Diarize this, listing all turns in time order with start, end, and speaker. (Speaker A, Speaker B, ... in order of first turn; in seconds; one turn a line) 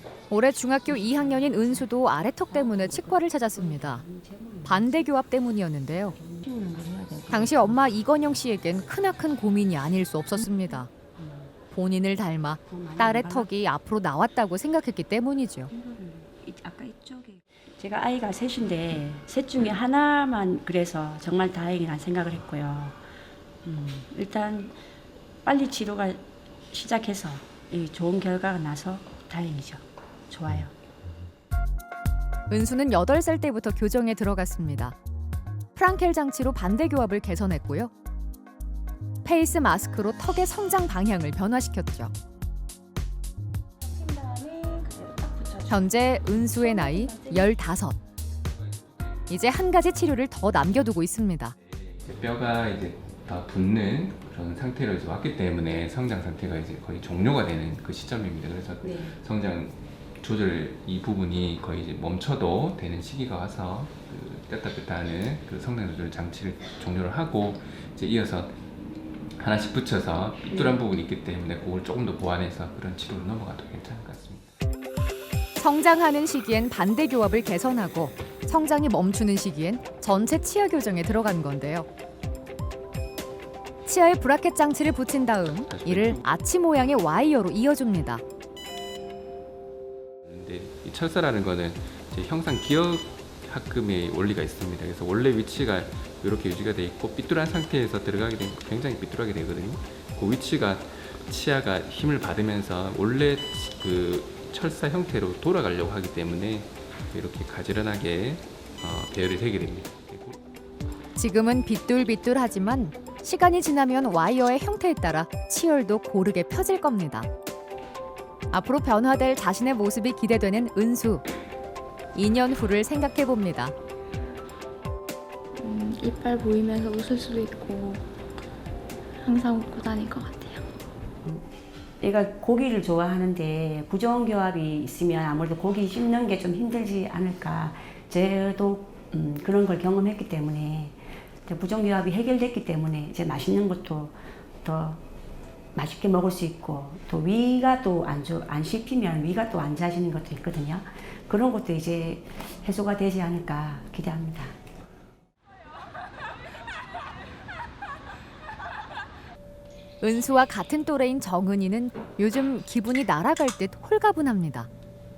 Speaker A: 0.3-4.1
Speaker B: 0.9-1.9
Speaker B: 2.5-5.1
Speaker A: 4.6-6.2
Speaker B: 6.1-7.8
Speaker A: 7.3-10.9
Speaker B: 11.2-11.5
Speaker A: 11.7-15.7
Speaker B: 12.7-13.5
Speaker B: 15.7-23.0
Speaker B: 23.6-24.8
Speaker B: 25.4-30.8
Speaker A: 32.5-35.0
Speaker A: 35.8-37.9
Speaker A: 39.2-42.1
Speaker B: 43.8-45.9
Speaker A: 45.7-48.0
Speaker B: 46.4-47.5
Speaker A: 49.3-51.5
Speaker C: 51.7-68.6
Speaker C: 69.4-74.5
Speaker A: 75.6-81.9
Speaker A: 83.9-88.2
Speaker C: 85.7-86.3
Speaker C: 90.2-110.4
Speaker A: 111.2-117.3
Speaker A: 118.5-121.2
Speaker A: 122.2-123.8
Speaker D: 125.6-128.0
Speaker D: 129.2-130.6
Speaker B: 132.0-145.0
Speaker B: 145.8-154.6
Speaker A: 160.0-164.7